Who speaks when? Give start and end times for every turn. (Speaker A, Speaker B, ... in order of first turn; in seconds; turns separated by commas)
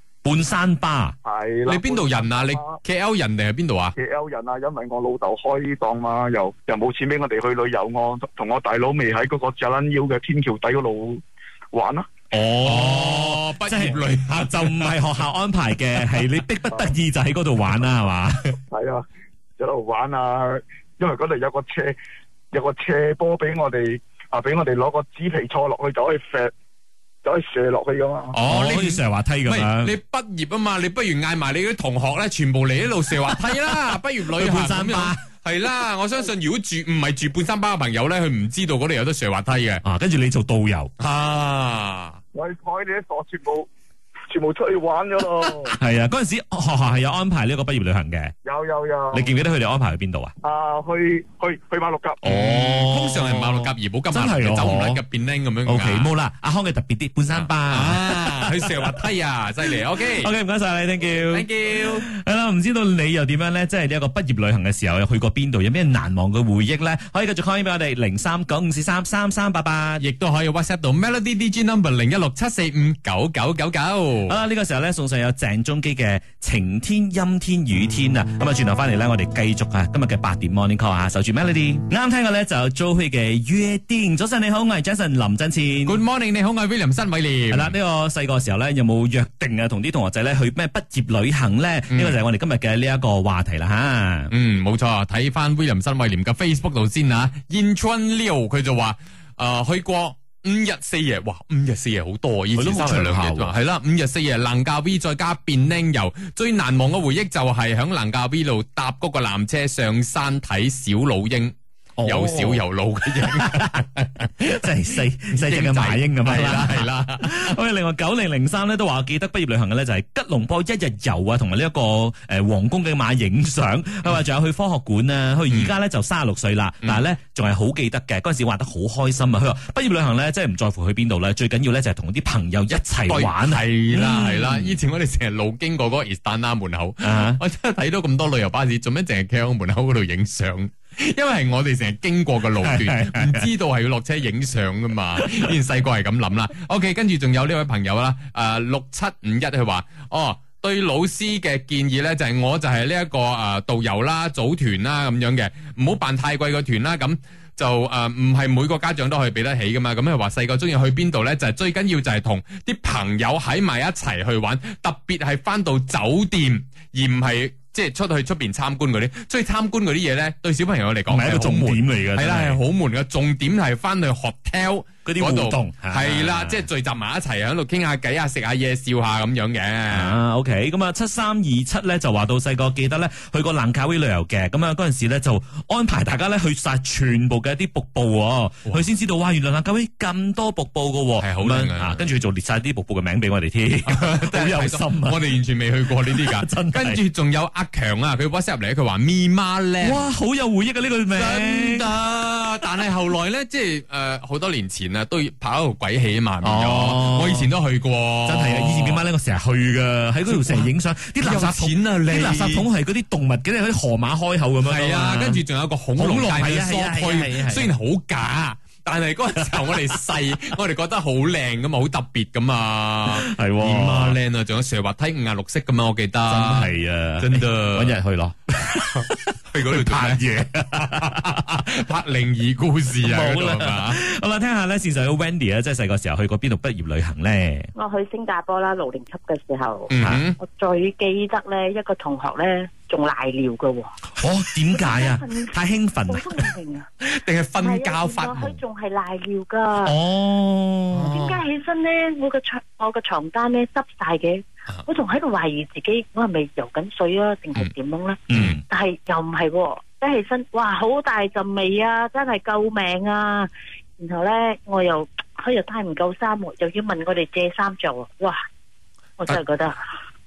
Speaker A: 0.2-1.1, Speaker B: 1.2-2.8, Speaker C: 1.6-3.9, Speaker B: 4.0-11.2, Speaker B: 11.7-12.1, Speaker C: 12.3-15.0, Speaker A: 12.4-18.6, Speaker B: 18.7-19.0, Speaker B: 19.6-21.9, Speaker B: 22.5-26.5, Speaker B: 27.2-28.4, Speaker C: 28.3-39.8, Speaker A: 28.4-29.9, Speaker A: 33.5-35.2, Speaker A: 39.8-40.9, Speaker C: 41.0-42.2, Speaker B: 42.3-43.7, Speaker B: 44.3-45.8, Speaker A: 45.8-48.3, Speaker B: 48.4-49.3, Speaker A: 49.1-50.3, Speaker B: 50.4-52.2, Speaker A: 52.2-55.0, Speaker C: 52.2-56.1, Speaker A: 55.6-58.8, Speaker C: 57.3-60.3, Speaker A: 60.1-70.0, Speaker C: 61.2-62.1, Speaker C: 70.0-74.4, Speaker A: 74.3-86.0, Speaker C: 85.8-87.7, Speaker A: 87.5-94.3, Speaker C: 91.9-92.2, Speaker C: 94.3-114.7, Speaker A: 102.5-103.5, Speaker A: 112.0-112.6, Speaker A: 114.5-134.8, Speaker C: 115.3-117.6, Speaker C: 125.5-125.7, Speaker C: 133.1-180.2, Speaker A: 137.0-137.4, Speaker A: 142.6-143.5, Speaker A: 145.2-145.5, Speaker A: 171.1-172.6, Speaker A: 175.0-176.7, Speaker A: 179.9-195.2, Speaker C: 191.2-192.0, Speaker C: 193.8-200.1, Speaker A: 196.0-197.0, Speaker A: 199.8-201.9, Speaker C: 201.1-209.0, Speaker A: 206.4-207.5, Speaker A: 208.2-215.4, Speaker C: 210.2-212.7, Speaker C: 214.6-228.0, Speaker A: 215.9-217.7, Speaker A: 219.5-219.8, Speaker A: 223.1-224.2, Speaker A: 226.3-231.5, Speaker C: 228.9-234.0, Speaker A: 233.0-237.7, Speaker D: 237.7-243.9, Speaker C: 239.9-240.4, Speaker A: 244.2-246.5, Speaker D: 244.7-246.9, Speaker C: 247.0-248.6, Speaker D: 247.6-249.9, Speaker A: 249.8-251.1, Speaker C: 250.9-251.4, Speaker D: 251.0-258.2, Speaker A: 258.3-258.6, Speaker D: 258.7-268.4, Speaker D: 269.2-269.8